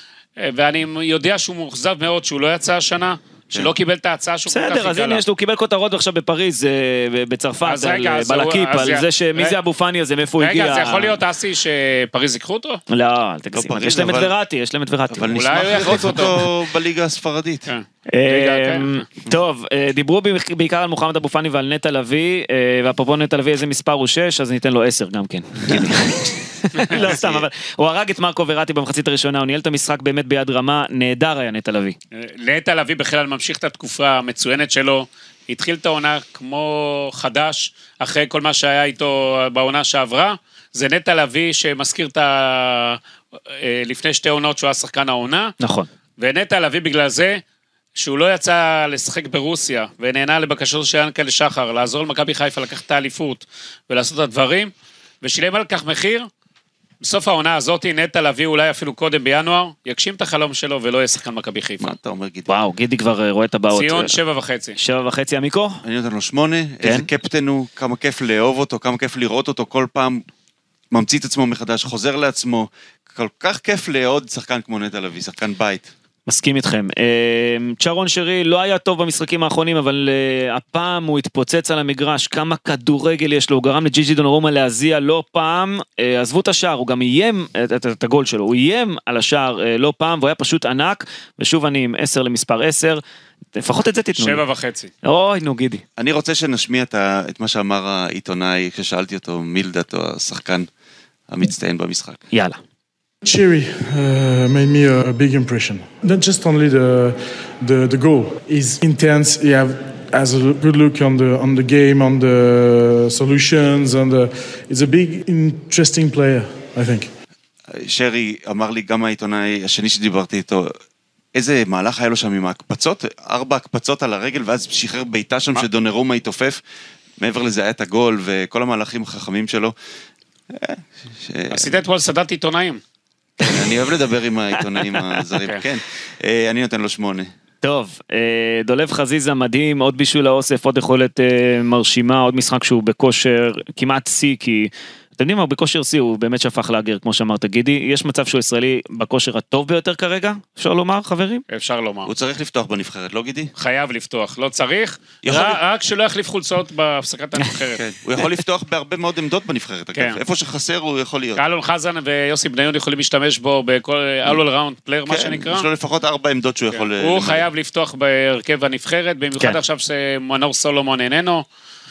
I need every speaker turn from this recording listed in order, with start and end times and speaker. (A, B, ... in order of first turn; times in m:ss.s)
0:00.4-0:05.2 A
0:04.5-0:11.2 B
0:07.6-0:09.6 A
0:10.4-0:12.8 A
0:12.9-0:15.9 B
0:13.5-0:14.3 C
0:15.1-0:17.7 C
0:15.3-0:16.4 A
0:17.7-0:19.0 A
0:18.1-0:32.0 B
0:26.9-0:27.5 C
0:32.1-0:43.0 A
0:43.5-0:45.6 A
0:45.6-0:45.9 B
0:46.2-0:47.4 A
0:48.0-0:56.3 A
0:57.0-1:01.9 A
1:01.8-1:02.5 C
1:02.5-1:04.2 B
1:03.7-1:04.8 A
1:04.8-1:05.8 B
1:05.8-1:10.2 C
1:06.8-1:07.1 B
1:10.9-1:15.9 C
1:16.3-1:33.0 B
1:33.6-1:34.4 B
1:34.2-1:34.9 A
1:35.0-1:35.8 B
1:36.0-1:40.7 C
1:41.3-1:42.2 C
1:42.3-1:42.6 B
1:43.2-1:57.1 D
1:57.7-2:00.7 C
2:01.3-2:06.6 C
2:07.2-2:09.7 C
2:10.5-2:11.8 C
2:11.5-2:12.8 A
2:13.4-2:13.7 B
2:13.4-2:17.3 C
2:14.8-2:15.1 B
2:17.6-2:31.4 B
2:31.5-2:32.1 A
2:32.0-2:33.5 C
2:33.6-2:37.8 A
2:35.2-2:35.6 C
2:37.8-2:41.4 C
2:40.0-2:40.2 A
2:41.4-2:45.7 A
2:45.1-2:47.5 C
2:46.7-2:51.4 A